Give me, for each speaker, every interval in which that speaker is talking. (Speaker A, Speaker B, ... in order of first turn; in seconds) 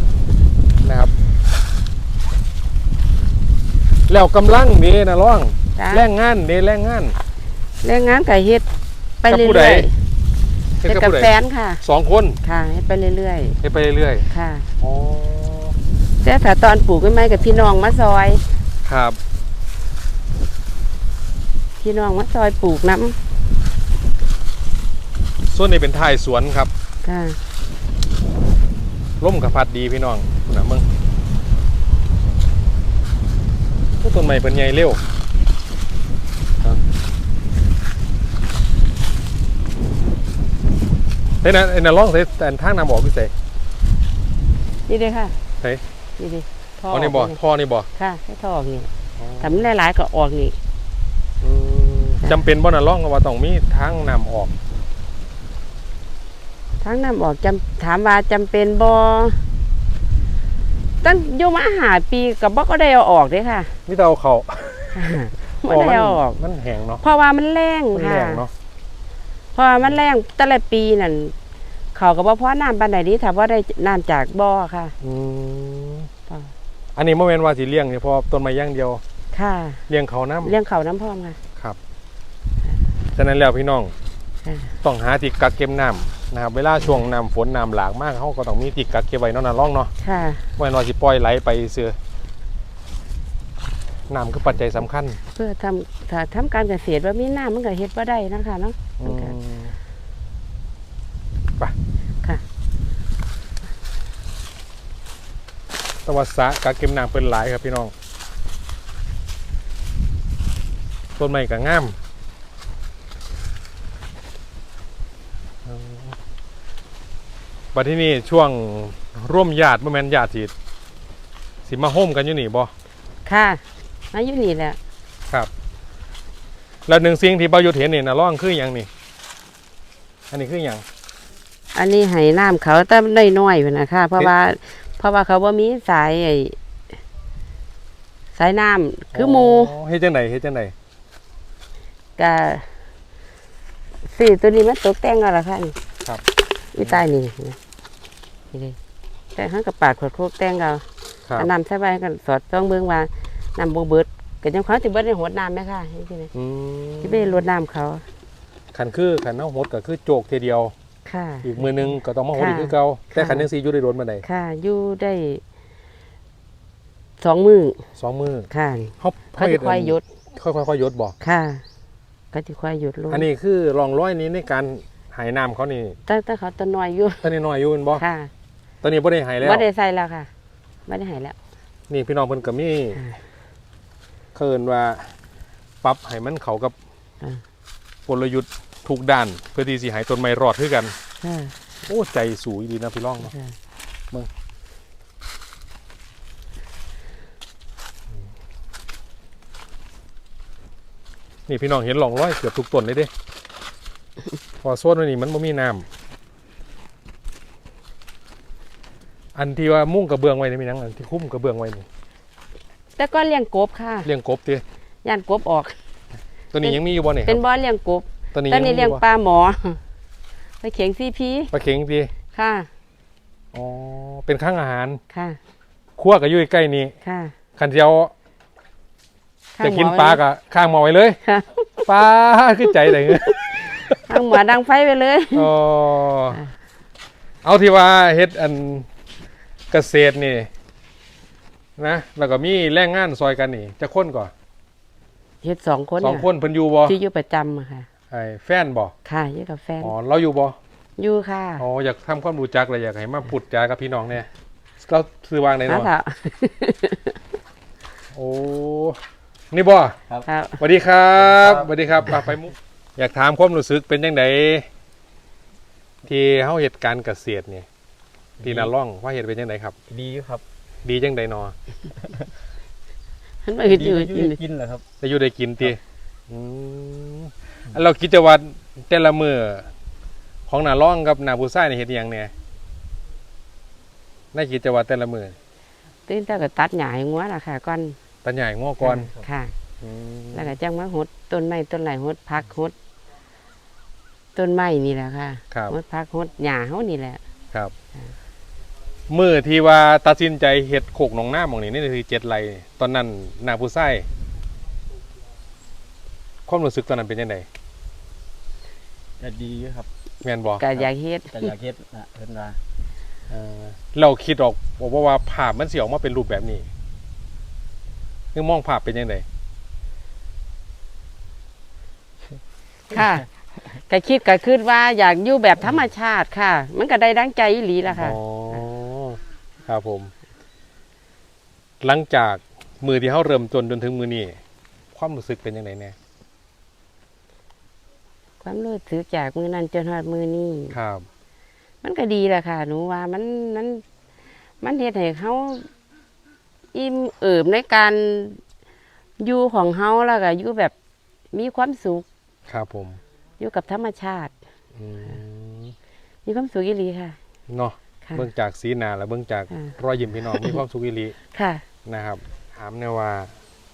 Speaker A: 0.8-1.1, 4.1-7.2, 9.3-9.9, 10.8-12.4, 13.6-14.2, 14.8-15.8, 18.8-19.2, 25.5-26.7, 29.2-30.9, 34.0-35.0, 41.4-43.3, 46.9-47.9, 49.2-49.7, 51.4-54.5, 63.9-67.0, 67.9-68.5, 75.0-76.1, 76.9-79.0, 79.9-80.5, 83.1-83.9, 84.8-89.9, 90.6-92.0, 94.1-95.2, 99.0-99.8, 106.0-107.9, 111.2-112.0, 115.6-116.2, 117.7-120.5, 121.7-122.7, 126.9-128.9, 130.3-130.8, 139.1-140.7, 156.3-157.4, 158.7-160.7, 161.4-164.2, 168.0-168.5, 169.0-171.1, 173.1-176.0, 177.2-178.0, 178.8-179.7, 181.9-183.0, 184.3-185.1, 185.8-186.7, 188.1-190.9, 191.8-193.3, 201.5-203.1, 204.6-205.9, 209.3-211.8, 214.0-214.6, 216.5-217.4, 218.3-219.0, 221.5-222.1, 223.5-225.0, 226.0-226.9, 227.6-228.1, 229.6-231.2, 231.8-234.2, 235.3-236.4, 237.4-238.9, 239.7-240.5, 241.8-244.3, 246.0-246.9, 248.1-248.9, 249.8-250.6, 251.6-254.3, 254.8-255.9, 258.1-259.0, 259.5-260.0, 260.6-264.7, 266.0-267.7, 268.4-269.7, 270.8-271.5, 275.0-279.7, 280.5-282.3, 284.3-285.4, 288.2-289.1, 289.8-290.6, 299.1-304.1, 306.5-307.4, 310.2-310.6, 313.3-316.6, 318.3-319.2, 327.9-330.1, 331.8-334.4, 334.9-335.9, 340.7-341.1, 352.5-353.0, 354.7-355.7, 357.5-361.1, 361.8-363.3
Speaker B: 5.8-6.0, 7.8-8.7, 9.2-9.9, 10.8-11.8, 12.4-13.6, 14.3-14.7, 16.2-18.4, 21.8-23.2, 27.0-27.4, 44.9-45.3, 46.2-47.4, 48.0-50.6, 56.8-59.4, 61.0-63.7, 64.9-66.4, 67.0-68.4, 69.5-71.3, 71.9-74.9, 79.3-79.8, 80.4-81.4, 84.4-84.7, 90.0-90.5, 95.3-99.3, 123.2-124.8, 131.7-136.6, 138.3-139.7, 142.2-142.7, 144.0-145.8, 146.7-147.6, 148.5-148.8, 149.3-150.8, 151.4-156.3, 157.0-158.0, 161.0-163.5, 164.2-165.4, 167.2-167.8, 168.5-170.0, 171.2-171.6, 172.3-173.3, 176.1-177.2, 178.0-178.3, 179.4-180.3, 180.9-181.3, 182.9-183.2, 191.2-191.5, 193.2-193.5, 213.0-214.1, 215.0-215.8, 216.6-219.8, 220.6-221.5, 222.3-222.7, 225.1-225.4, 227.0-227.3, 229.6-230.2, 231.2-231.8, 232.8-235.5, 245.4-246.2, 246.8-247.9, 249.0-249.9, 251.0-251.6, 255.7-257.2, 260.2-260.6, 273.4-274.4, 286.1-287.9, 288.8-289.5, 290.3-292.7, 294.4-297.2, 310.6-311.3, 322.9-328.2, 338.4-340.8, 341.8-343.8, 344.6-345.7, 346.7-348.4, 349.2-350.7, 351.3-352.1, 353.4-354.3, 356.2-357.2, 360.3-360.6, 361.3-361.6
Speaker C: 261.2-262.2, 268.4-268.7, 269.9-270.4, 273.6-274.9, 309.2-309.9, 310.7-312.6